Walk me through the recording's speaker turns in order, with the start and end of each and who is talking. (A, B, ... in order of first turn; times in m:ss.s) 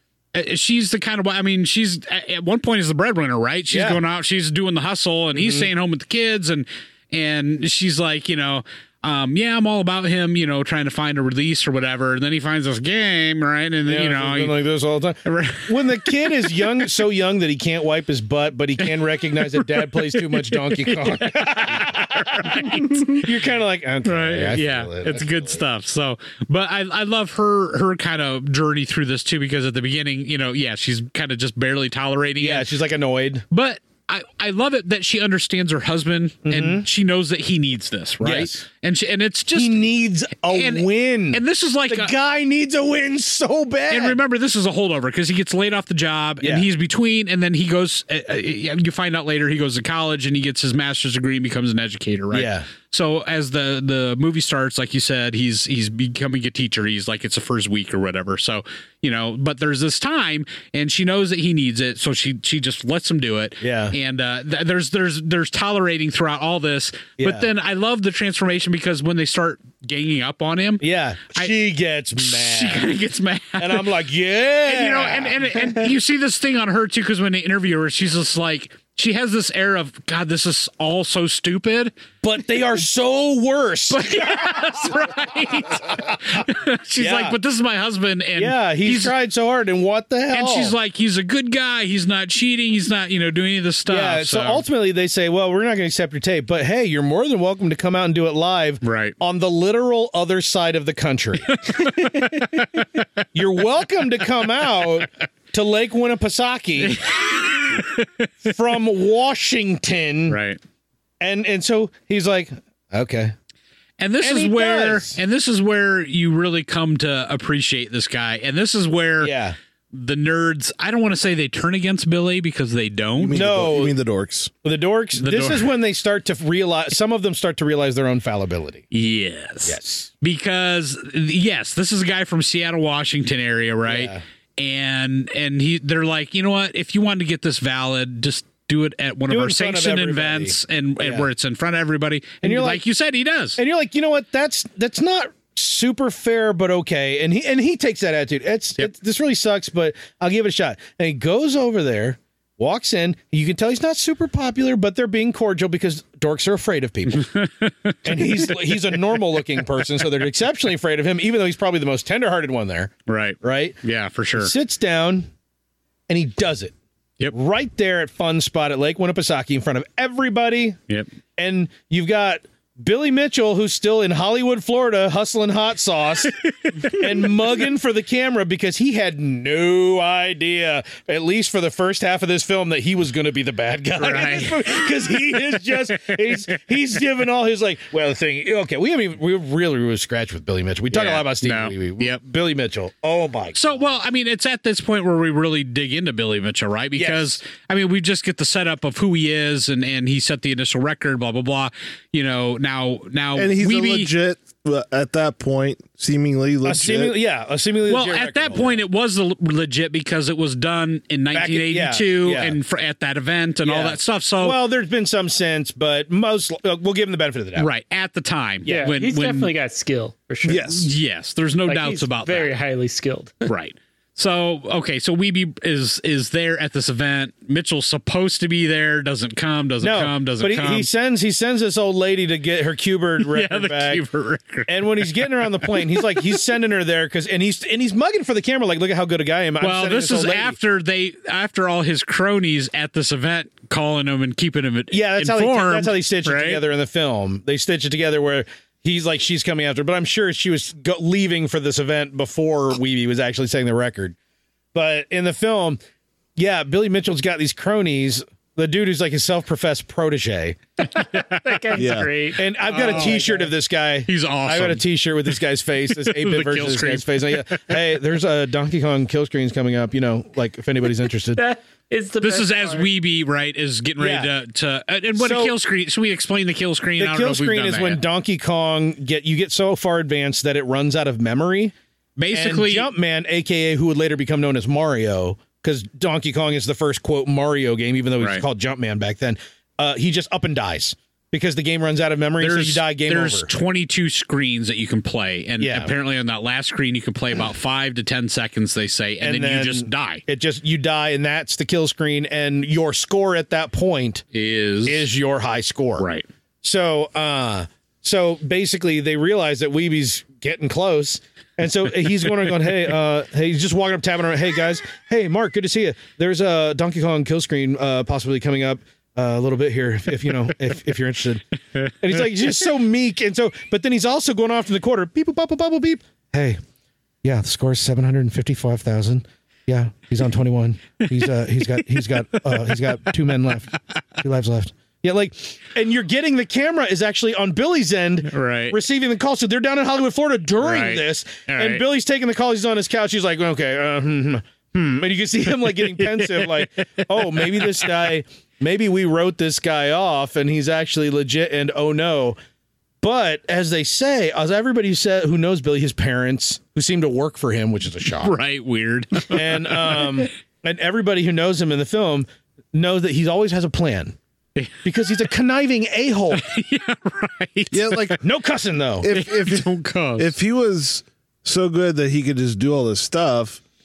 0:00.3-0:14.5 A
0:03.7-0:04.0 B
0:05.3-0:05.7 B
0:13.9-0:25.6 B
0:15.2-0:16.8 A
0:18.8-0:23.3 A
0:24.0-0:32.7 A
0:32.4-0:33.4 B
0:33.5-0:39.9 A
0:36.4-0:36.8 B
0:38.2-0:38.6 B
0:39.5-0:44.2 B
0:40.5-0:42.1 A
0:43.9-1:10.8 A
0:52.3-0:52.7 B
1:03.6-1:03.9 B
1:07.2-1:07.5 B
1:10.8-1:12.9 B
1:12.2-1:13.9 A
1:13.6-1:15.9 B
1:14.6-1:21.9 A
1:22.2-1:25.0 B
1:23.9-1:29.1 A
1:27.0-1:27.4 B
1:28.4-1:30.7 B
1:30.3-1:34.6 A
1:33.9-1:47.0 B
1:38.8-1:39.2 A
1:41.5-1:43.0 A
1:46.8-1:48.5 A
1:48.4-1:50.4 B
1:50.3-1:50.6 A
1:51.2-1:53.3 B
1:54.0-1:59.3 A
1:54.2-1:55.2 B
1:59.2-1:59.6 B
1:59.9-2:03.5 A
2:03.2-2:04.5 C
2:03.3-2:03.9 B
2:04.6-2:08.8 B
2:05.2-2:05.7 A
2:08.9-2:23.6 A
2:09.6-2:10.1 B
2:13.9-2:14.2 B
2:19.3-2:21.3 B
2:22.4-2:22.8 B
2:23.6-2:37.3 B
2:37.2-2:39.2 A
2:38.0-2:43.8 B
2:43.1-2:44.5 A
2:44.4-2:45.3 B
2:46.1-2:46.7 B
2:47.3-2:50.8 B
2:51.4-3:13.8 B
2:56.3-2:57.3 A
3:04.0-3:06.4 A
3:10.9-3:12.2 A
3:13.5-3:24.1 A
3:17.0-3:17.4 B
3:23.4-3:27.2 C
3:26.6-3:28.8 B
3:27.9-3:34.6 A
3:31.3-3:32.6 B
3:33.6-3:37.7 B
3:37.6-3:39.5 A
3:38.6-3:40.7 D
3:40.4-3:40.9 C
3:40.5-3:42.5 A
3:41.7-3:43.5 D
3:43.4-3:50.9 A
3:49.8-3:54.0 B
3:53.2-3:56.4 A
3:54.7-4:00.6 B
3:59.6-4:06.6 A
4:04.9-4:14.1 B
4:14.7-4:15.8 B
4:16.4-4:20.6 B
4:20.8-4:23.5 D
4:21.1-4:21.5 A
4:21.8-4:22.1 C
4:22.4-4:31.4 B
4:22.7-4:23.2 A
4:24.0-4:27.6 A
4:31.4-4:32.9 D
4:32.2-4:38.0 A
4:34.0-4:34.3 B
4:35.2-4:35.5 B
4:37.0-4:41.7 B
4:42.2-4:42.9 A
4:42.3-4:53.5 B
4:48.2-4:48.4 A
4:52.4-5:00.2 A
4:55.6-4:55.9 B
4:59.2-5:04.2 B
5:04.3-5:05.1 A
5:04.8-5:06.0 B
5:06.0-5:06.2 A
5:06.6-5:21.4 B
5:22.0-5:26.6 B
5:27.2-5:52.4 B
5:38.3-5:38.8 A
5:40.6-5:41.8 A
5:46.0-5:48.0 A
5:53.0-5:58.3 B
5:58.2-6:00.2 A
5:59.3-6:04.2 B
6:04.8-6:06.4 B
6:06.3-6:08.2 A
6:07.7-6:08.2 C
6:08.2-6:09.1 B
6:09.0-6:13.6 C
6:09.1-6:10.3 A